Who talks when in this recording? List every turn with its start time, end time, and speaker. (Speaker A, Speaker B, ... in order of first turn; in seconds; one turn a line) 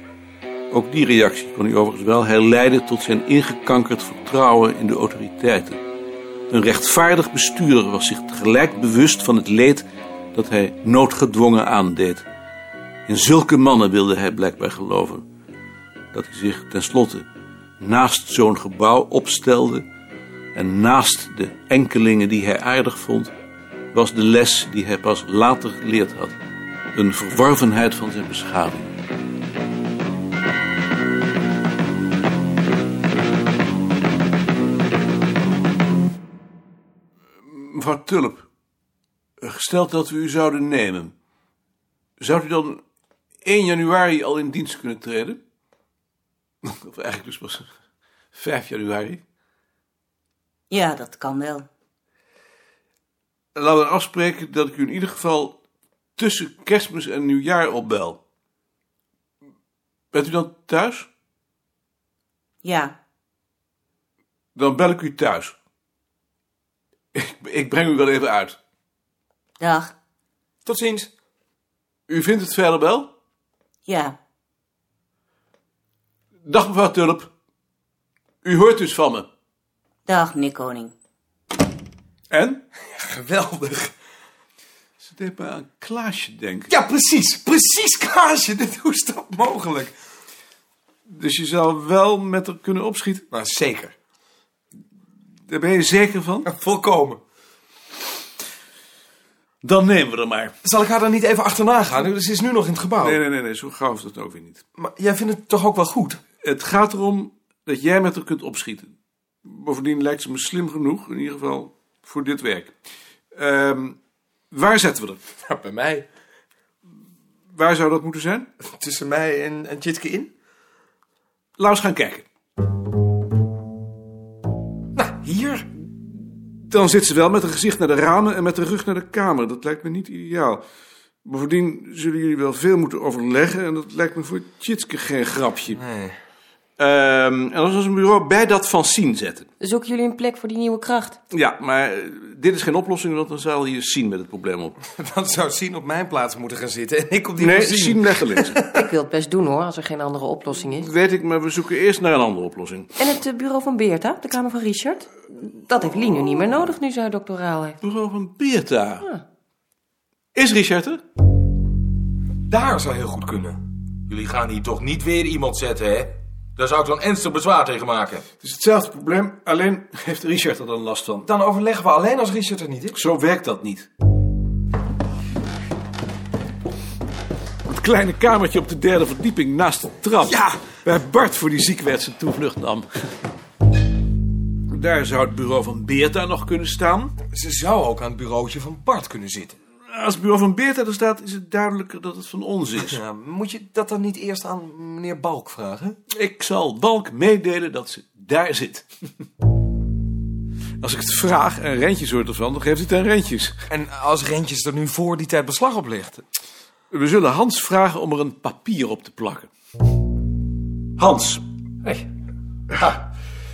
Speaker A: 0.7-5.8
Speaker A: 6.5-12.2
Speaker A: 13.1-15.2
Speaker A: 16.1-17.3
Speaker A: 17.8-19.9
Speaker A: 20.5-23.3
Speaker A: 23.9-26.4
Speaker A: 26.9-29.0
Speaker A: 37.4-38.5
Speaker A: 39.4-41.1
Speaker A: 42.2-42.8
Speaker A: 43.4-45.4
Speaker A: 46.6-47.7
Speaker A: 48.3-49.2
Speaker B: 50.7-51.6
Speaker A: 53.5-55.5
Speaker A: 56.2-58.2
Speaker A: 60.1-61.1
Speaker B: 62.6-62.9
Speaker A: 64.5-65.5
Speaker A: 67.1-68.6
Speaker B: 69.6-69.9
Speaker C: 70.6-71.1
Speaker A: 72.1-73.1
Speaker B: 73.9-74.2
Speaker A: 76.4-77.3
Speaker A: 78.4-79.3
Speaker B: 80.1-80.9
Speaker A: 82.3-82.6
Speaker C: 82.9-83.9
Speaker A: 85.0-86.7
Speaker C: 86.7-89.9
Speaker A: 91.1-93.2
Speaker C: 93.3-93.9
Speaker A: 95.5-96.5
Speaker C: 96.5-97.2
Speaker A: 99.6-100.5
Speaker C: 100.6-103.2
Speaker A: 103.0-104.6
Speaker C: 104.8-106.2
Speaker A: 106.4-112.7
Speaker A: 113.3-114.0
Speaker A: 114.5-115.2
Speaker C: 115.4-116.0
Speaker A: 117.5-118.5
Speaker C: 118.6-120.3
Speaker A: 121.6-122.3
Speaker C: 125.0-125.6
Speaker A: 126.7-130.6
Speaker A: 131.2-135.8
Speaker C: 135.8-136.2
Speaker A: 136.8-139.5
Speaker D: 139.6-141.2
Speaker A: 141.3-144.8
Speaker C: 145.0-148.8
Speaker A: 147.4-148.6
Speaker D: 148.7-150.9
Speaker A: 150.7-152.9
Speaker D: 153.0-157.8
Speaker A: 157.8-159.1
Speaker A: 160.3-161.0
Speaker C: 162.5-163.6
Speaker E: 164.1-164.9
Speaker C: 164.6-166.1
Speaker E: 166.6-168.2
Speaker A: 168.4-171.3
Speaker C: 171.2-172.9
Speaker A: 172.9-173.9
Speaker A: 177.7-182.9
Speaker C: 180.3-180.5
Speaker A: 184.7-187.1
Speaker C: 187.3-189.6
Speaker A: 189.9-193.0
Speaker C: 192.9-195.9
Speaker A: 196.1-198.9
Speaker A: 200.8-203.6
Speaker C: 203.7-206.2
Speaker A: 206.9-209.5
Speaker A: 211.0-211.4